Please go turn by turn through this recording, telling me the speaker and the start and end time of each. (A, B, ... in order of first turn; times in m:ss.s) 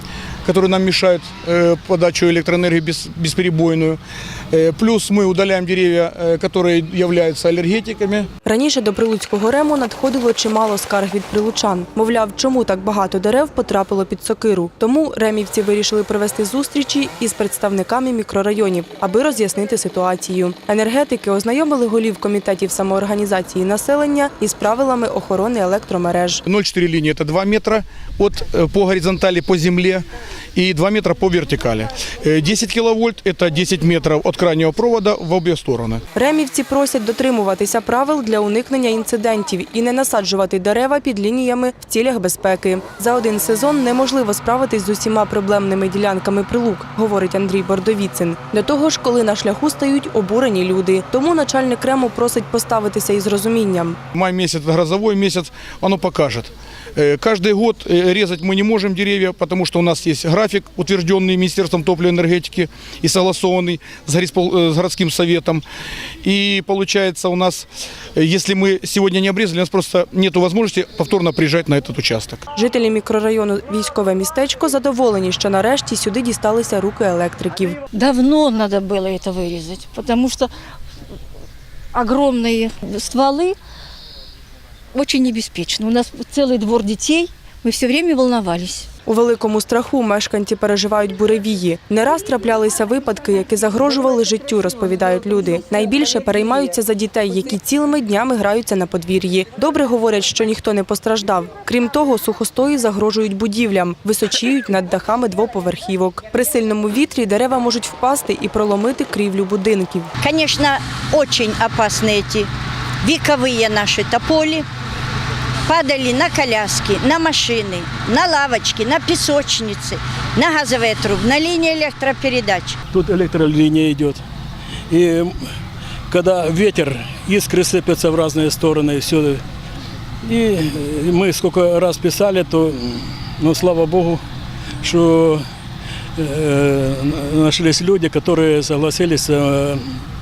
0:00.4-0:04.0 A
0:04.5-0:08.3 A
0:08.4-0:26.4 B
0:26.4-0:36.0 A
0:36.1-0:54.0 B
0:54.1-1:05.6 A
1:06.2-1:12.4 A
1:12.5-1:17.8 B
1:17.9-1:20.5 C
1:21.9-1:23.6 C
1:24.9-1:28.9 C
1:29.1-1:50.1 B
1:50.2-1:52.5 D
1:53.0-1:54.6 D
1:55.6-2:02.8 D
2:02.9-2:04.2 E
2:04.9-2:05.3 E
2:06.1-2:09.4 E
2:10.2-2:14.2 E
2:14.8-2:15.4 E
2:16.2-2:19.8 E